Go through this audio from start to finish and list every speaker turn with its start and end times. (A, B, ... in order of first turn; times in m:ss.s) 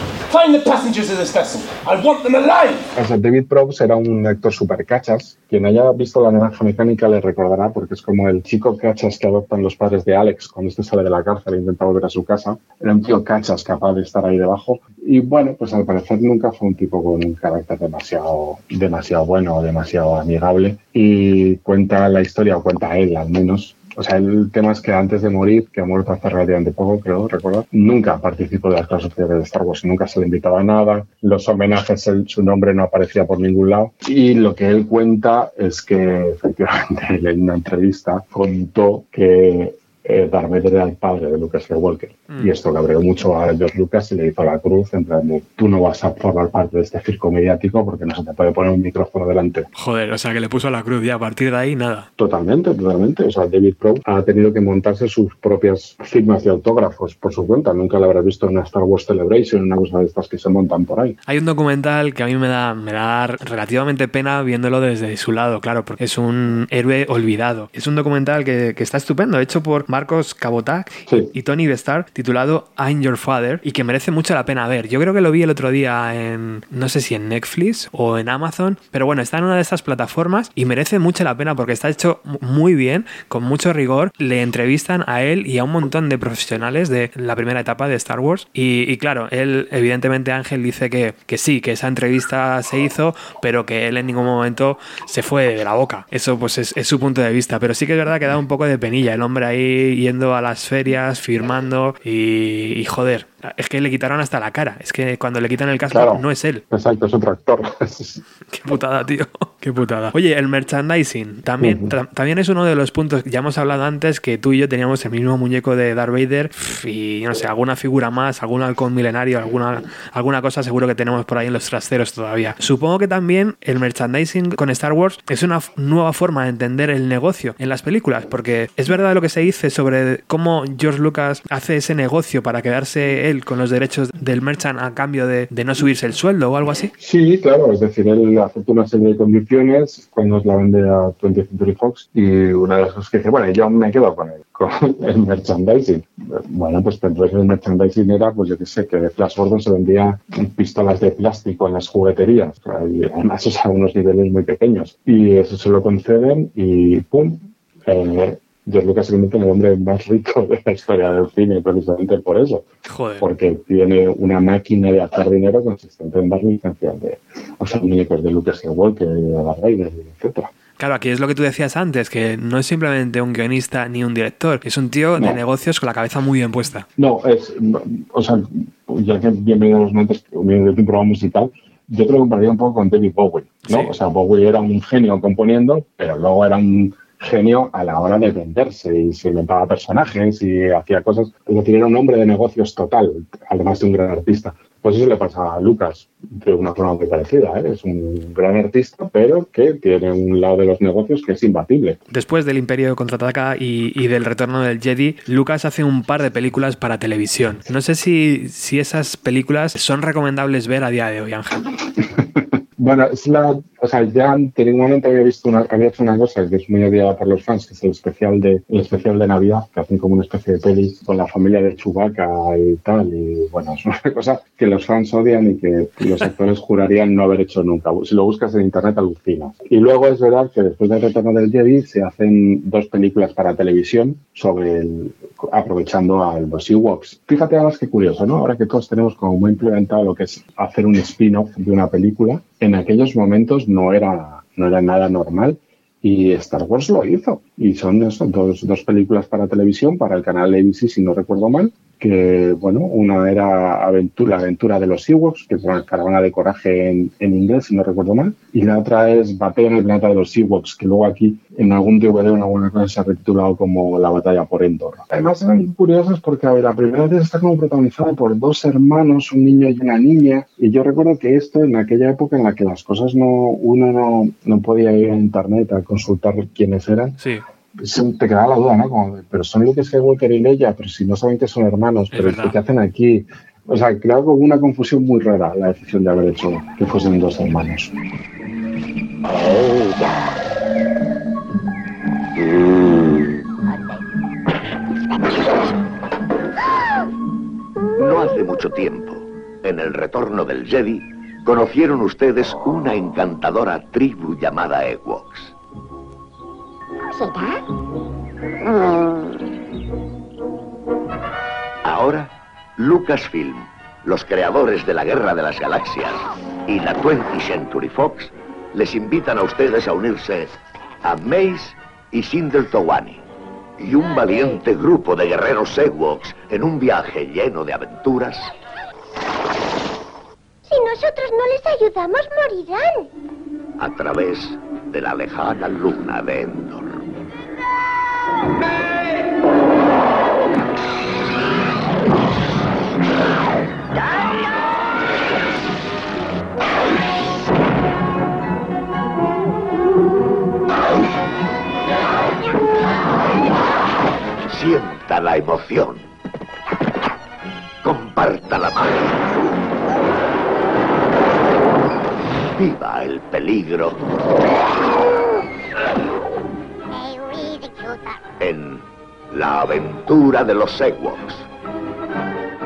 0:00.3-0:02.9 A
0:02.9-0:49.7 B
0:49.8-0:52.1 C
0:52.2-1:01.2 B
1:01.3-1:46.6 C
1:11.1-1:11.3 B
1:45.9-1:48.2 B
1:48.5-2:16.9 C
1:51.6-1:51.9 B
2:17.0-2:42.6 B
2:42.9-2:43.2 C
2:43.2-2:50.5 B
2:50.8-2:56.8 C
2:57.0-3:22.0 B
3:03.6-3:03.9 C
3:22.1-3:31.7 C
3:32.2-4:37.2 B
4:37.8-4:47.9 B
4:42.1-4:42.6 C
4:49.4-4:49.8 D
4:58.0-5:05.5 D
5:07.1-5:07.6 E
5:11.8-5:23.2 D
5:23.8-5:28.5 D
5:30.6-5:33.1 E
5:33.8-5:37.0 D
5:54.5-5:56.1 D
5:57.8-5:59.4 D
6:02.5-6:04.0 D
6:07.2-6:07.9 E
6:08.4-6:11.4 D